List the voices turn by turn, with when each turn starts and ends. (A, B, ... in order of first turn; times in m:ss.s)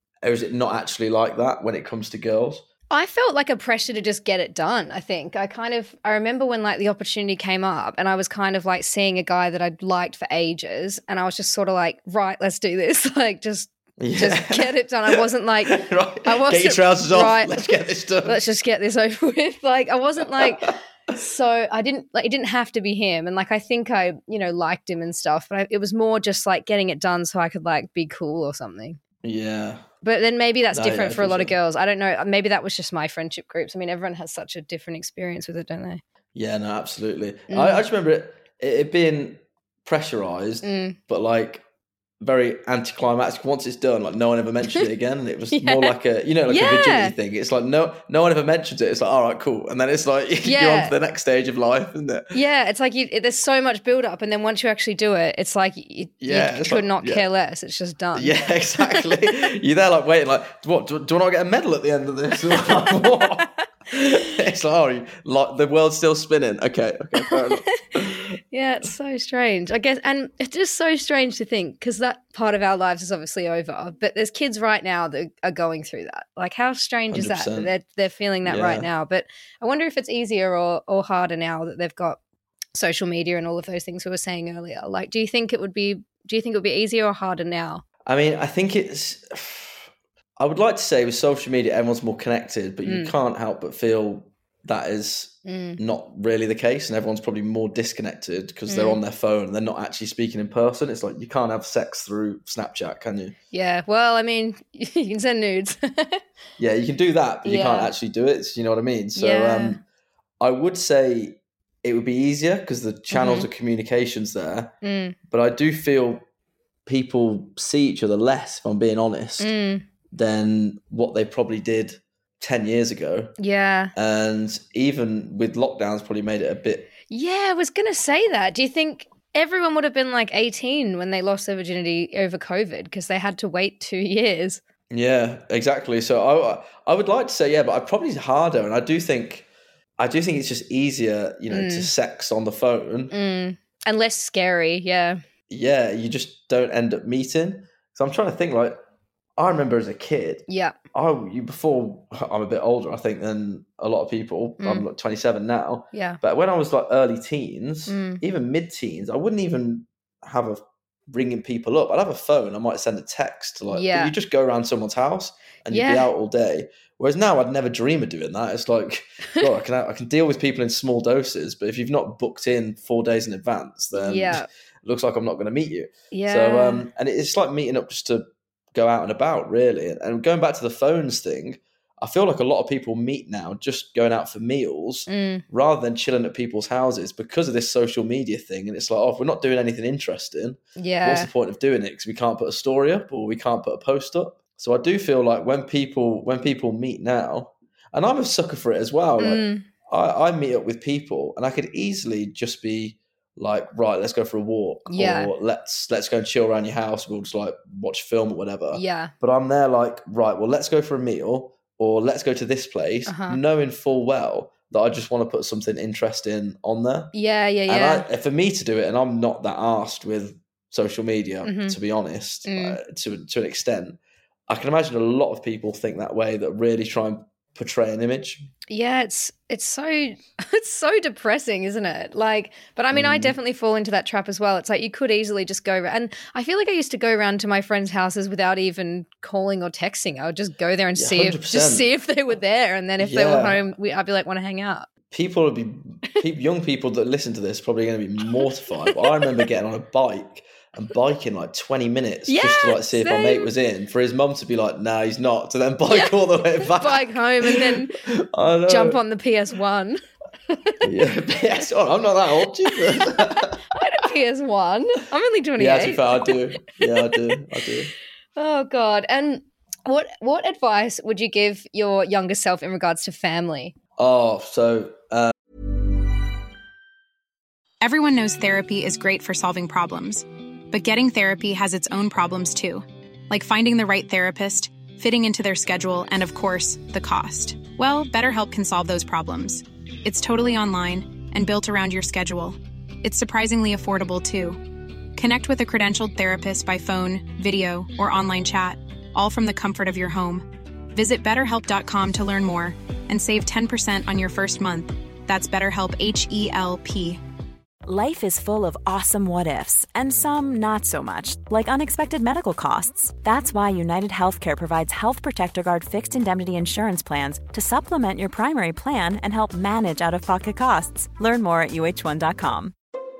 0:00.2-0:02.6 A
0:02.9-0:17.6 B
0:14.0-0:18.4 A
0:18.2-0:29.0 B
0:20.2-0:20.7 A
0:29.2-0:29.8 A
0:30.0-0:36.0 B
0:30.7-0:31.6 A
0:36.3-0:41.6 A
0:37.5-0:37.8 B
0:40.6-0:41.0 B
0:42.2-0:52.4 A
0:45.5-0:45.9 B
0:46.5-0:47.1 B
0:50.4-0:50.9 B
0:52.3-0:59.0 B
0:56.2-0:57.2 A
0:58.1-1:08.4 A
1:08.5-1:22.2 B
1:17.1-1:17.7 A
1:18.4-1:18.9 A
1:22.7-1:27.8 B
1:28.0-1:43.3 A
1:32.8-1:33.1 B
1:35.4-1:35.8 B
1:38.7-1:39.0 B
1:43.5-1:46.2 B
1:46.6-1:49.8 A
1:47.4-1:47.9 B
1:49.2-1:49.8 B
1:50.4-1:54.7 A
1:53.1-1:53.5 B
1:54.8-1:55.2 B
1:55.3-1:56.2 A
1:56.8-1:59.5 A
1:59.4-1:59.8 B
2:00.1-2:03.3 A
2:03.4-2:03.9 B
2:03.9-2:06.9 A
2:07.1-2:14.6 B
2:14.9-2:23.1 A
2:21.5-2:21.9 B
2:23.1-2:25.2 B
2:25.5-2:28.8 A
2:29.4-3:37.1 A
2:30.5-2:30.8 B
2:34.6-2:34.8 B
2:35.9-2:36.2 B
2:37.9-2:38.2 B
2:43.7-2:44.1 B
2:45.7-2:46.1 B
2:53.9-2:54.5 B
2:56.1-2:56.9 B
3:05.1-3:05.4 B
3:10.8-3:11.3 B
3:19.2-3:19.6 B
3:24.9-3:25.3 B
3:28.7-3:29.1 B
3:33.0-3:33.4 B
3:37.1-3:38.1 B
3:37.7-3:48.5 A
3:41.4-3:41.8 B
3:42.4-3:42.8 B
3:48.7-4:04.9 B
3:52.9-3:53.4 A
4:01.0-4:01.9 A
4:03.0-4:03.6 A
4:05.1-4:19.0 A
4:08.3-4:09.4 B
4:12.3-4:13.5 B
4:15.9-4:18.0 B
4:18.7-4:20.8 B
4:20.8-4:23.6 A
4:22.9-4:26.3 B
4:25.6-4:27.9 A
4:28.4-4:33.7 B
4:34.0-4:35.3 A
4:37.8-5:07.2 C
5:07.8-5:22.7 D